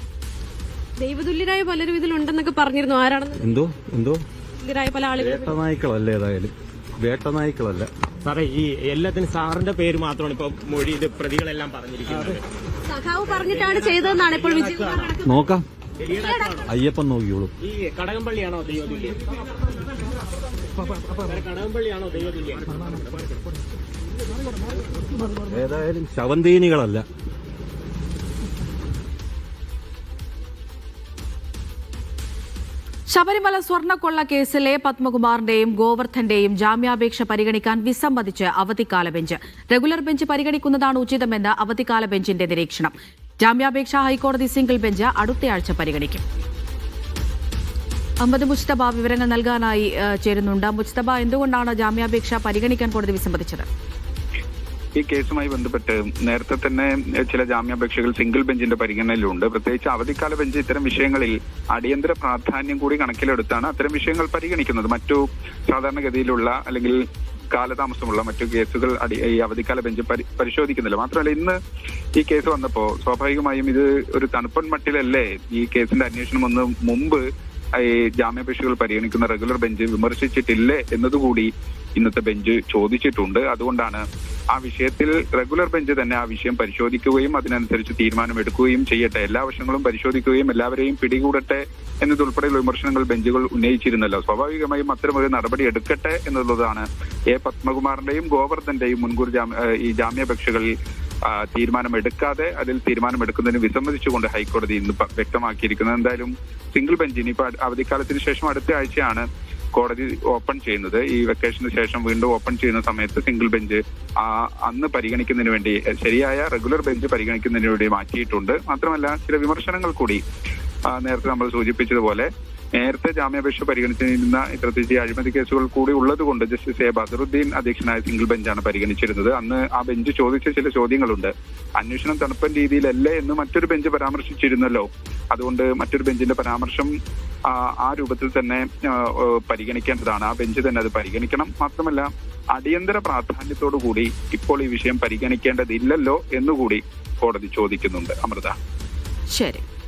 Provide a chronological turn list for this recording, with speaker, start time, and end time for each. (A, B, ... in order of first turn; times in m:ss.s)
0:01.0-0:03.4 A
0:03.4-0:04.2 B
0:04.6-0:05.6 A
0:05.2-0:07.9 B
0:08.3-0:12.4 C
0:12.9-0:15.3 A
0:15.2-0:15.7 B
0:16.0-0:16.7 C
0:16.1-0:16.6 A
0:16.7-0:17.5 B
0:17.6-0:19.2 C
0:21.2-0:23.2 C
0:25.4-0:27.1 B
0:33.1-0:46.2 D
0:48.2-0:53.7 D
0:55.0-1:07.0 E
1:07.5-1:11.6 E
1:12.2-1:17.2 E
1:17.8-1:40.7 E
1:41.2-2:00.2 E
2:00.9-2:16.9 E
2:17.5-2:28.6 E
2:29.3-2:29.6 D